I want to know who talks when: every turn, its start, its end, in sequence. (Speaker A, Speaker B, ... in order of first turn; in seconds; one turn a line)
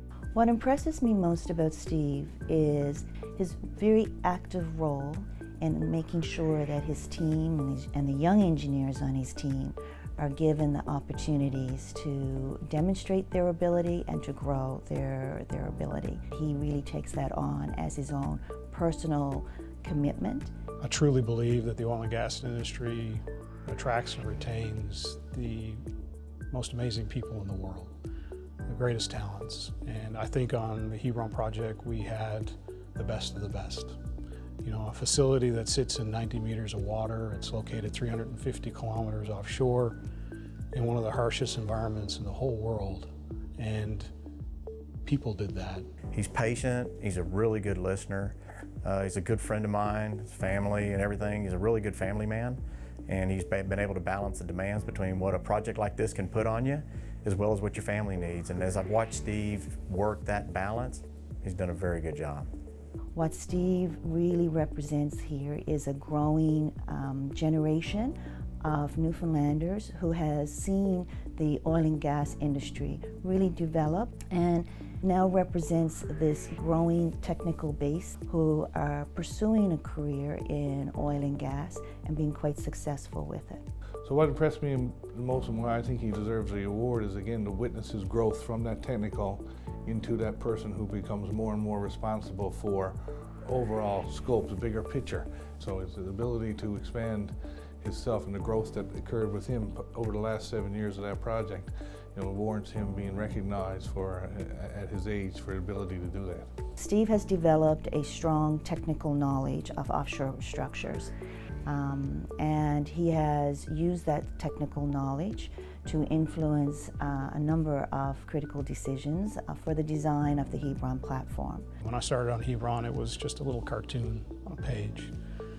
Speaker A: 0.3-20.5
Speaker B: 20.8-25.8
Speaker B: 26.5-27.9
Speaker B: 28.6-34.0
Speaker B: 34.6-40.0
Speaker B: 40.7-44.1
Speaker B: 45.0-45.9
Speaker C: 46.1-62.5
Speaker A: 63.1-83.6
Speaker D: 84.0-106.5
Speaker A: 106.8-111.1
Speaker A: 111.7-121.6
Speaker B: 121.8-125.1